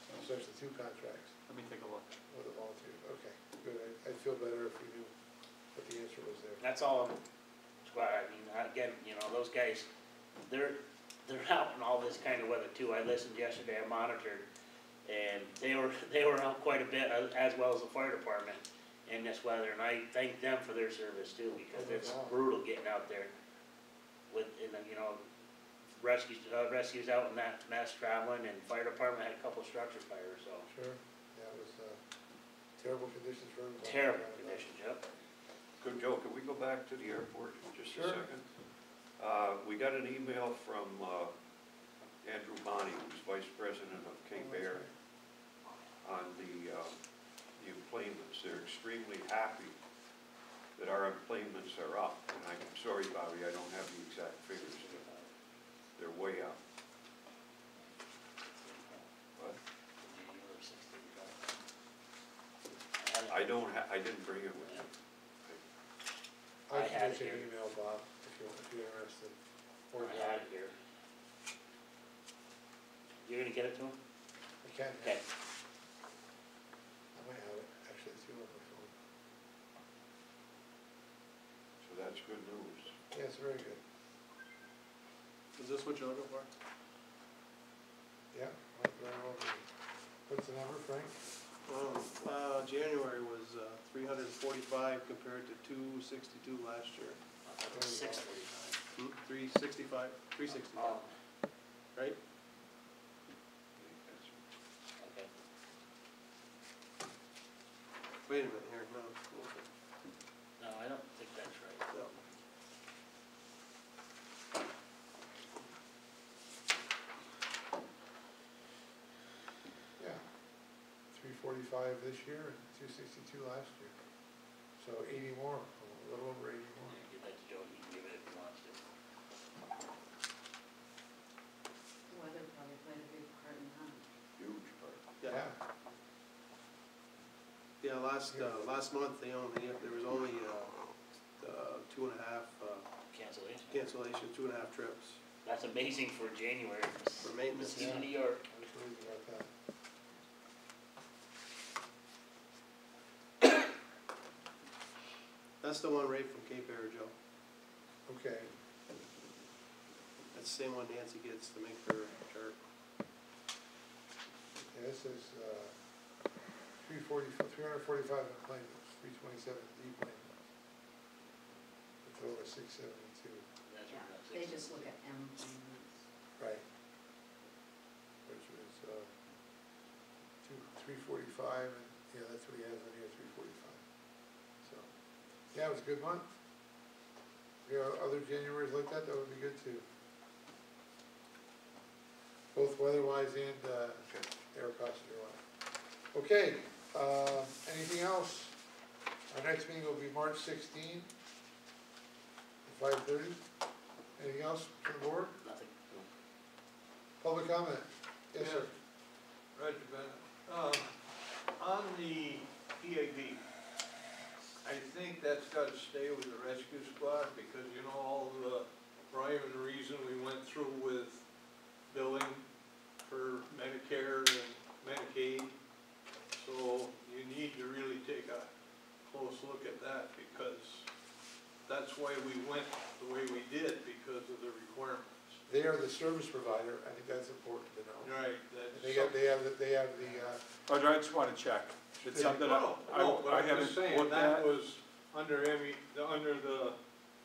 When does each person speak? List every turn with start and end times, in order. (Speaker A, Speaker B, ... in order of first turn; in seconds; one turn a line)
Speaker A: 0.2-1.4
Speaker B: 1.5-2.1
Speaker A: 2.3-5.1
Speaker A: 5.7-6.6
Speaker C: 6.6-7.2
Speaker C: 7.8-9.9
Speaker C: 10.5-14.5
Speaker C: 15.1-23.3
Speaker A: 21.7-22.4
Speaker C: 24.3-25.2
Speaker C: 25.9-30.7
Speaker A: 30.7-32.0
Speaker A: 32.8-34.6
Speaker C: 33.8-35.0
Speaker D: 35.8-38.5
Speaker A: 37.9-38.2
Speaker D: 39.2-41.3
Speaker D: 42.2-44.9
Speaker A: 44.3-44.9
Speaker D: 46.0-47.0
Speaker D: 47.5-49.8
Speaker D: 50.8-55.1
Speaker C: 54.5-55.3
Speaker D: 56.0-56.6
Speaker C: 58.4-59.1
Speaker C: 60.0-61.4
Speaker C: 63.0-63.6
Speaker D: 63.3-64.9
Speaker C: 64.6-64.8
Speaker A: 66.7-69.4
Speaker C: 66.7-67.5
Speaker A: 69.9-70.4
Speaker C: 70.0-70.7
Speaker C: 73.2-74.0
Speaker A: 74.6-75.2
Speaker A: 77.1-78.9
Speaker D: 81.8-83.0
Speaker A: 83.1-83.8
Speaker E: 85.6-86.5
Speaker A: 88.3-89.7
Speaker A: 90.3-91.2
Speaker E: 91.7-97.2
Speaker C: 97.5-98.8
Speaker A: 97.7-98.3
Speaker E: 99.0-101.0
Speaker C: 100.5-101.1
Speaker D: 103.8-104.4
Speaker C: 105.0-105.3
Speaker E: 108.3-109.7
Speaker C: 110.6-111.8
Speaker A: 120.0-120.2
Speaker A: 121.1-123.9
Speaker A: 124.8-127.0
Speaker C: 126.9-128.8
Speaker F: 132.1-134.1
Speaker D: 134.4-135.1
Speaker A: 135.2-135.6
Speaker E: 137.8-140.7
Speaker A: 138.3-138.8
Speaker E: 141.4-142.9
Speaker C: 143.1-143.9
Speaker E: 143.7-145.2
Speaker C: 145.4-148.7
Speaker E: 147.2-148.0
Speaker A: 147.7-148.1
Speaker A: 148.7-149.5
Speaker E: 155.6-157.1
Speaker A: 158.1-158.5
Speaker E: 160.3-162.6
Speaker A: 164.7-165.8
Speaker A: 166.8-170.4
Speaker A: 172.0-173.5
Speaker C: 173.7-174.9
Speaker F: 173.9-176.1
Speaker A: 176.4-176.6
Speaker A: 178.2-179.1
Speaker A: 180.4-183.8
Speaker A: 184.6-184.9
Speaker A: 185.5-186.3
Speaker A: 187.7-189.8
Speaker A: 192.5-195.4
Speaker A: 196.1-198.6
Speaker A: 199.3-201.1
Speaker A: 202.7-203.4
Speaker A: 204.2-205.4
Speaker C: 205.4-205.7
Speaker A: 207.2-208.7
Speaker G: 208.4-208.8
Speaker G: 209.6-210.9
Speaker G: 211.6-213.4
Speaker G: 214.6-221.2
Speaker G: 221.9-222.5
Speaker G: 223.0-225.6
Speaker G: 226.3-228.5
Speaker G: 229.1-230.9
Speaker G: 231.7-235.4
Speaker A: 235.5-238.1
Speaker G: 238.0-239.2
Speaker A: 238.7-240.4
Speaker B: 240.7-244.5
Speaker A: 242.0-242.4
Speaker G: 242.2-246.8